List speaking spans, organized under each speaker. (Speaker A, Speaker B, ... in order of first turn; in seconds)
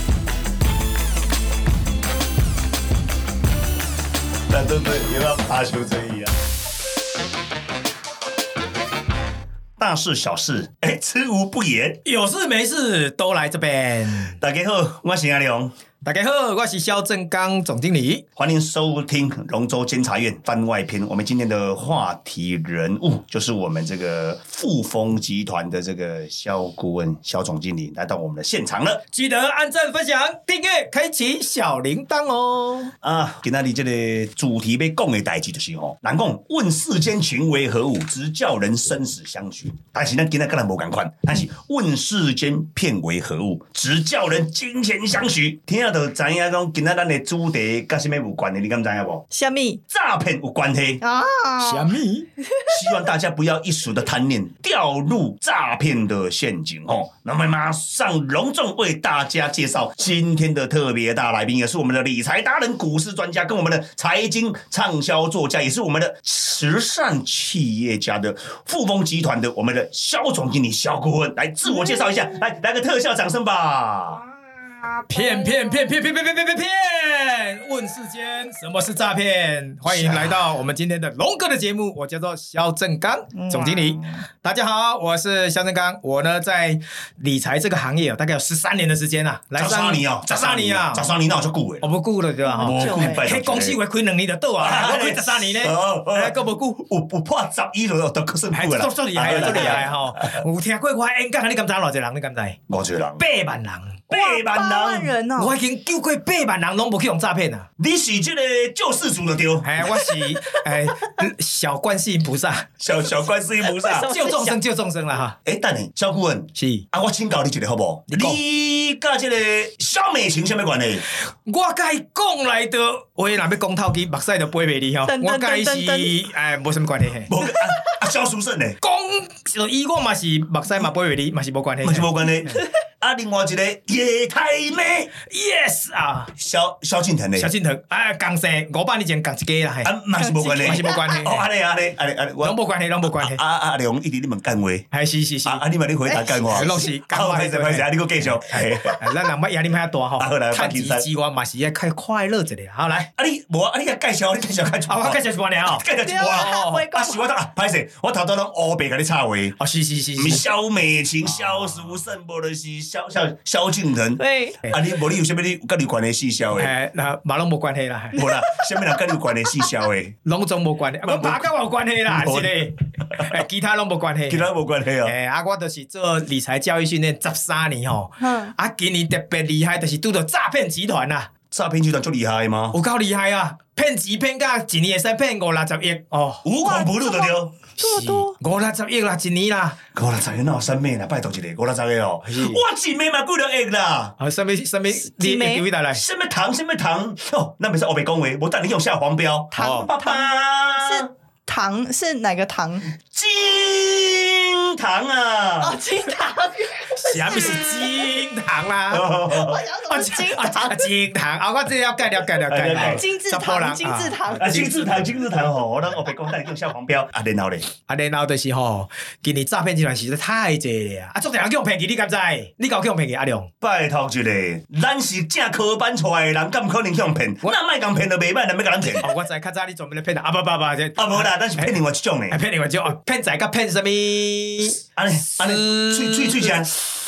Speaker A: 4.5-6.3, 9.8-12.0, 14.4-15.7, 18.4-29.0, 33.0-49.2, 49.9-51.0, 52.7-74.2, 79.9-80.5, 89.5-91.9, 92.6-93.8, 94.6-100.4, 102.7-103.2, 104.1-105.1, 107.8-109.8, 112.8-114.1, 115.4-121.0, 127.3-128.8, 131.8-135.1, 136.3-137.5, 139.8-144.9, 145.4-149.0, 150.2-151.1, 153.2-159.6, 160.2-166.7, 168.1-170.1, 171.0-171.5, 172.1-173.4, 174.3-175.1, 181.5-182.8, 186.4-187.5, 189.9-194.1, 195.9-201.1, 203.0-205.8, 208.9-209.6, 212.4-213.0, 214.3-217.7, 223.6-229.1, 231.0-232.4, 234.9-236.7
Speaker B: 12.1-14.4, 16.0-18.2, 29.1-32.9, 51.6-52.3, 75.1-91.1, 91.8-96.8, 98.5-102.6, 103.2-104.0, 105.4-107.7, 109.6-112.7, 114.0-115.4, 116.5-116.9, 118.1-118.4, 121.3-127.3, 128.8-132.1, 135.2-136.3, 137.4-139.9, 140.5-141.4, 142.4-143.4, 144.9-145.6, 146.5-153.1, 154.9-156.9, 159.6-160.4, 161.3-161.9, 166.5-168.2, 170.2-174.5, 175.0-181.3, 182.7-186.4, 187.8-189.8, 192.2-192.6, 194.2-196.0, 199.6-199.9, 207.0-209.1, 209.9-214.7, 217.8-223.5, 228.9-231.8, 232.3-234.8, 235.3-236.7
Speaker C: 49.3-49.8, 51.0-52.7, 71.7-72.2, 74.9-75.9, 83.3-84.2, 92.4-93.3, 99.3-99.8, 104.1-105.5, 110.0-110.5, 113.6-114.6, 125.0-126.2, 140.2-141.2, 146.1-146.9, 156.0-157.2, 164.2-164.6, 168.2-169.7, 178.2-178.5, 186.6-188.3, 195.0-195.6, 199.5-202.9, 205.6-208.1, 209.3-210.9, 212.7-214.8